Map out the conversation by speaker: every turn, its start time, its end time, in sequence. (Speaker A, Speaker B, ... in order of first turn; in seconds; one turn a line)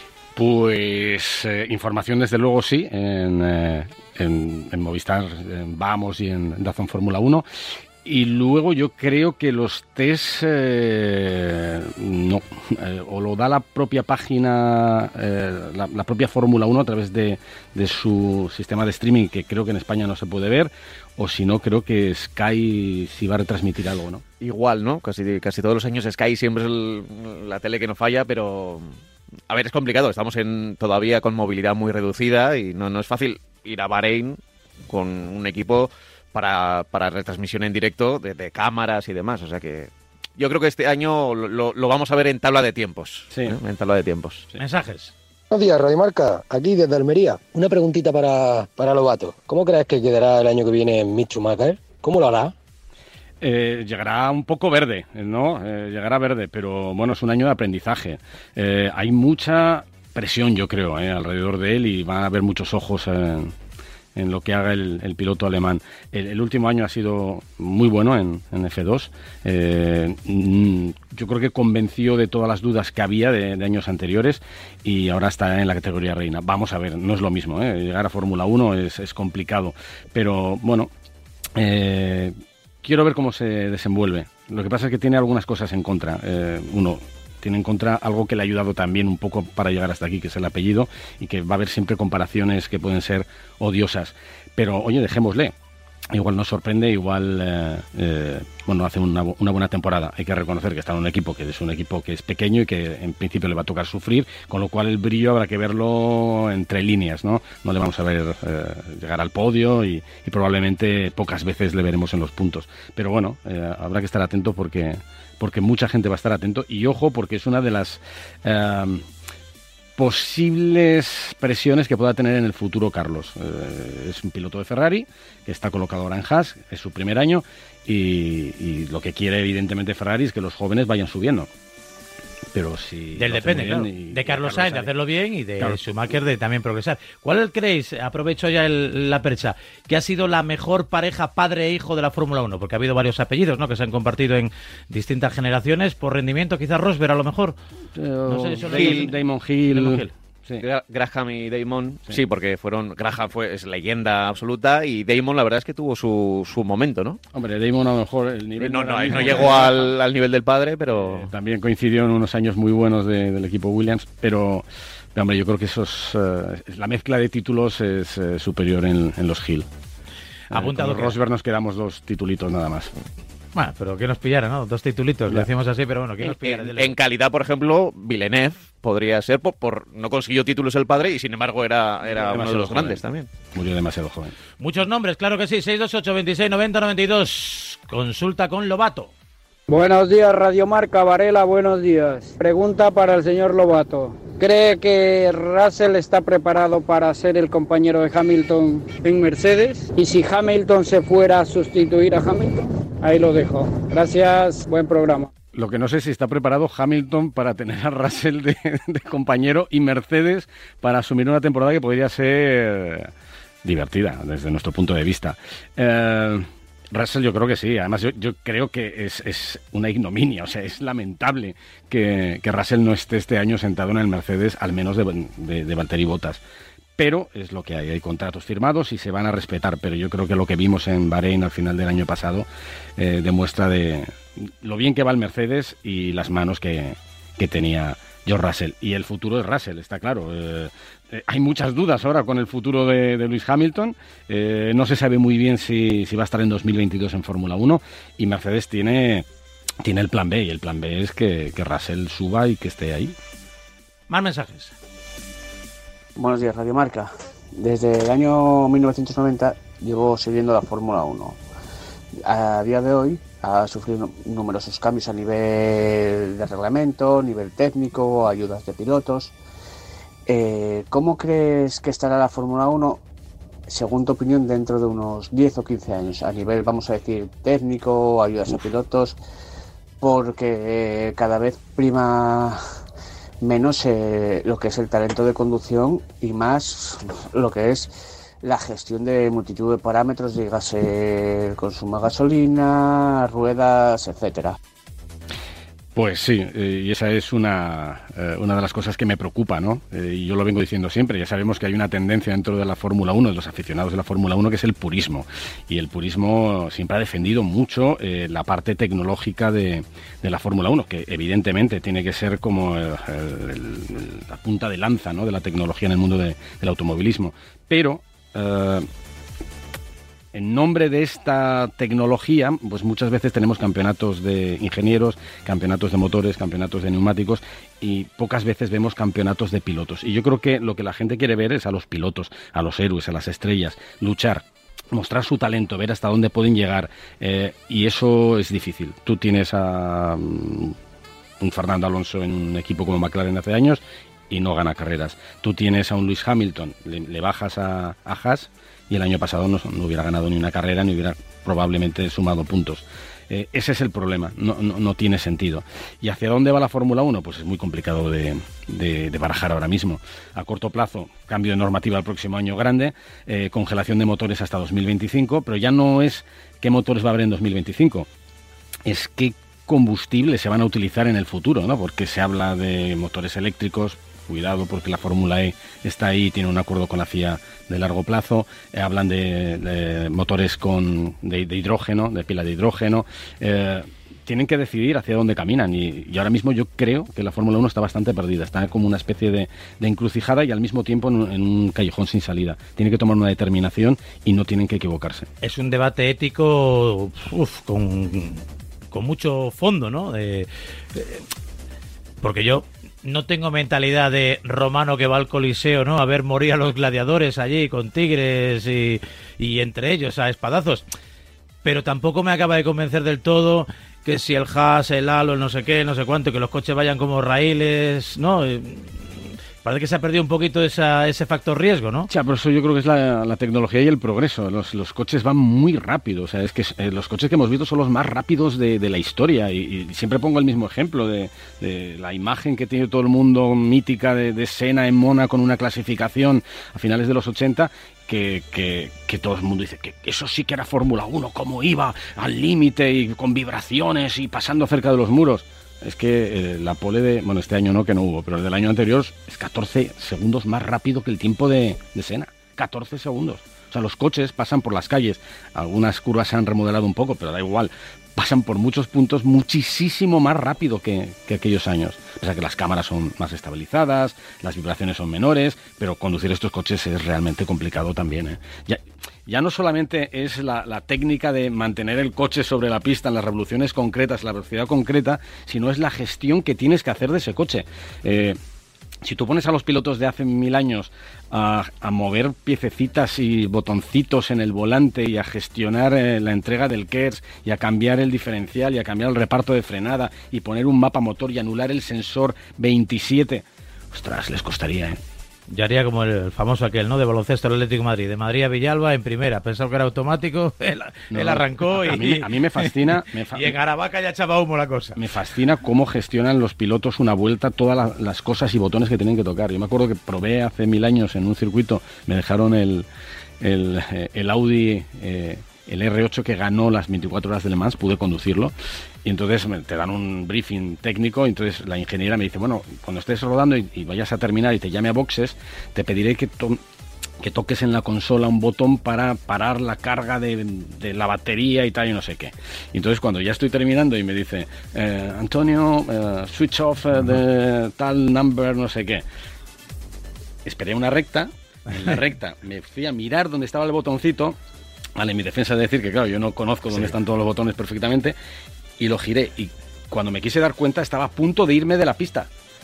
Speaker A: 0.3-7.5
Speaker A: 8.0-24.2
Speaker B: 24.4-28.9
Speaker B: 29.5-44.5
Speaker A: 43.3-43.6
Speaker C: 44.6-45.1
Speaker D: 45.5-52.5
Speaker A: 53.4-63.5
Speaker A: 64.2-80.9
Speaker A: 81.5-95.5
Speaker A: 96.1-119.1
Speaker A: 120.0-131.5
Speaker A: 132.5-134.9
Speaker C: 133.2-147.6
Speaker A: 147.9-150.6
Speaker C: 148.3-149.1
Speaker B: 148.7-149.1
Speaker C: 149.7-150.1
Speaker B: 150.6-157.2
Speaker A: 157.3-159.9
Speaker B: 158.6-161.3
Speaker A: 160.9-169.7
Speaker C: 170.5-171.2
Speaker A: 170.5-172.9
Speaker C: 173.6-176.9
Speaker B: 176.2-183.3
Speaker A: 182.1-183.0
Speaker A: 183.5-184.3
Speaker C: 184.6-189.1
Speaker E: 189.7-205.3
Speaker A: 205.5-213.1
Speaker A: 213.6-226.4
Speaker A: 227.0-249.3
Speaker A: 249.8-253.1
Speaker C: 254.1-254.8
Speaker F: 256.2-261.4
Speaker F: 262.2-269.3
Speaker F: 270.3-273.0
Speaker F: 273.7-279.2
Speaker F: 280.0-282.6
Speaker F: 283.4-294.6
Speaker A: 295.9-318.9
Speaker A: 320.3-340.8
Speaker A: 341.4-368.1
Speaker A: 368.9-395.3
Speaker C: 395.4-401.2
Speaker C: 402.2-410.9
Speaker C: 411.6-422.1
Speaker A: 422.1-478.4
Speaker A: 479.0-495.0
Speaker C: 495.5-505.0
Speaker A: 501.1-503.6
Speaker A: 505.0-512.9
Speaker A: 513.4-518.5
Speaker A: 519.0-526.6
Speaker A: 527.2-539.0
Speaker A: 540.4-544.4
Speaker A: 545.0-548.2
Speaker A: 548.8-552.3